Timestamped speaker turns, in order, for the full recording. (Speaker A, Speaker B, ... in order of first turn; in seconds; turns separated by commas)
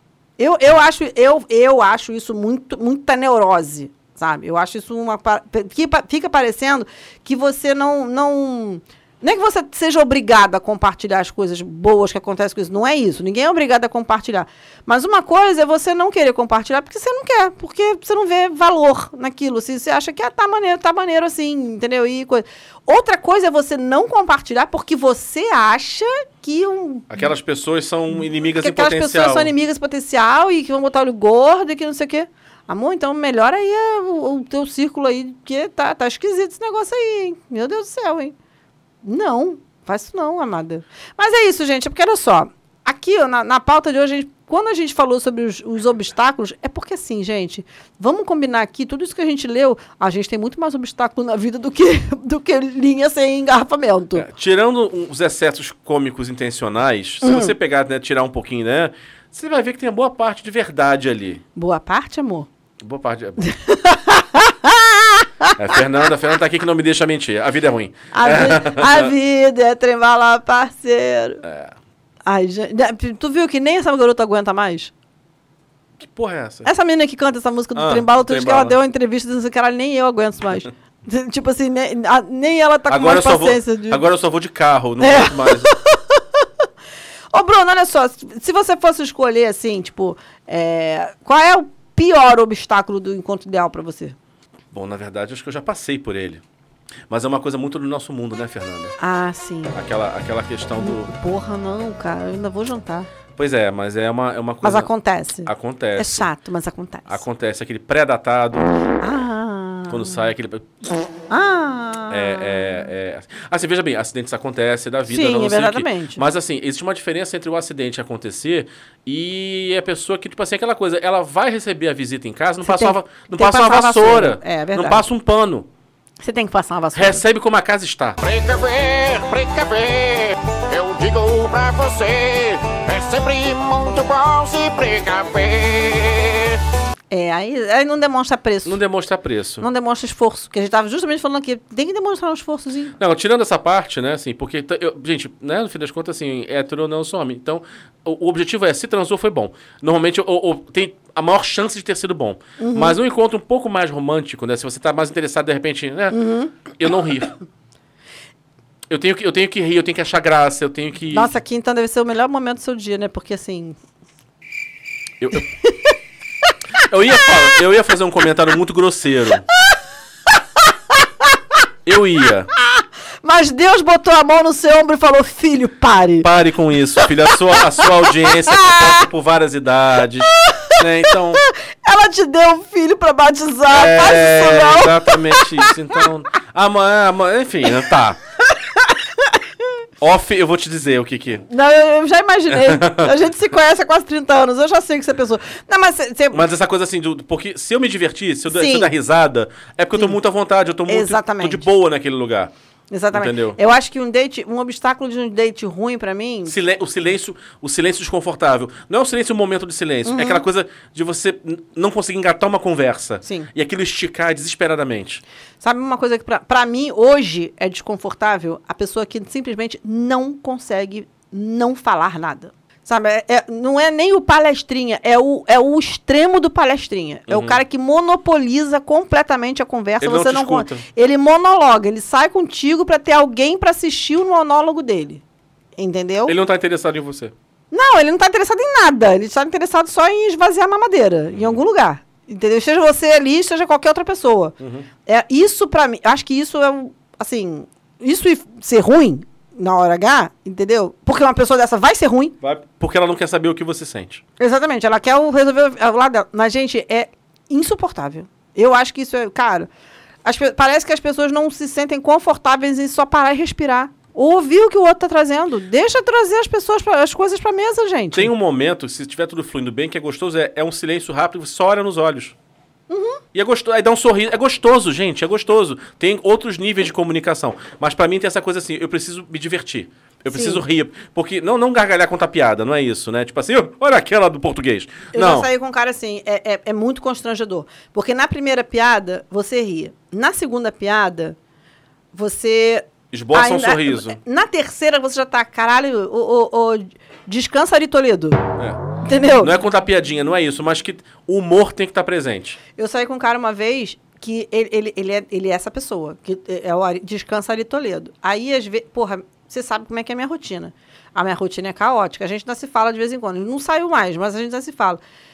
Speaker A: 0.4-27.3, Speaker B: 27.1-29.5, Speaker A: 28.4-38.3, Speaker A: 39.0-54.2, Speaker B: 54.1-61.4, Speaker A: 57.2-57.5, Speaker A: 61.5-62.5, Speaker B: 62.8-63.4, Speaker A: 63.4-65.5, Speaker B: 65.5-69.1, Speaker A: 68.1-71.4, Speaker B: 71.4-71.7, Speaker A: 72.2-74.9, Speaker B: 76.0-76.7, Speaker A: 76.6-84.0, Speaker B: 77.7-78.8, Speaker B: 82.9-85.7, Speaker A: 85.0-86.4, Speaker A: 87.3-94.2, Speaker B: 94.7-96.4, Speaker B: 97.1-98.9, Speaker A: 99.0-99.8, Speaker B: 99.7-101.1, Speaker A: 100.8-103.1, Speaker B: 103.3-104.9, Speaker A: 104.6-107.2, Speaker B: 105.4-106.3, Speaker B: 107.1-108.7, Speaker A: 109.0-110.2, Speaker B: 109.9-110.7, Speaker A: 111.3-112.8, Speaker B: 112.1-125.7, Speaker A: 115.1-116.2, Speaker A: 122.6-125.0, Speaker A: 126.2-127.2, Speaker B: 126.9-128.2, Speaker C: 128.2-136.6, Speaker A: 137.1-138.8, Speaker B: 138.6-139.7, Speaker A: 139.6-142.9, Speaker B: 143.0-157.3, Speaker A: 152.6-153.0, Speaker A: 156.1-156.5, Speaker B: 158.9-161.3, Speaker A: 161.1-163.8, Speaker B: 165.2-165.4, Speaker A: 165.6-165.9, Speaker B: 166.8-169.4, Speaker A: 171.0-171.3, Speaker B: 171.8-172.5, Speaker A: 172.8-176.3, Speaker B: 176.2-181.4, Speaker A: 178.5-179.0, Speaker A: 180.4-185.7, Speaker B: 183.7-188.2, Speaker B: 190.0-191.4, Speaker A: 191.5-196.4, Speaker B: 192.5-193.1, Speaker B: 196.3-202.5, Speaker A: 198.5-198.9, Speaker A: 200.9-201.7, Speaker A: 202.9-206.5, Speaker B: 203.1-203.6, Speaker B: 206.4-215.2, Speaker A: 210.0-210.4, Speaker A: 213.2-213.5, Speaker A: 215.6-235.2, Speaker B: 227.3-227.6, Speaker B: 230.0-230.8, Speaker A: 235.8-236.3, Speaker B: 236.3-237.3, Speaker A: 237.7-244.5, Speaker B: 241.3-241.6, Speaker B: 244.6-244.9, Speaker A: 245.1-252.3, Speaker B: 252.4-254.2, Speaker A: 254.4-259.7, Speaker A: 260.2-268.3, Speaker B: 268.1-272.3, Speaker A: 272.9-273.2, Speaker B: 273.3-285.5, Speaker A: 280.3-280.6, Speaker A: 285.1-291.4, Speaker A: 292.1-298.4, Speaker B: 293.1-294.2, Speaker A: 299.0-299.6, Speaker B: 299.4-302.6, Speaker A: 302.8-315.0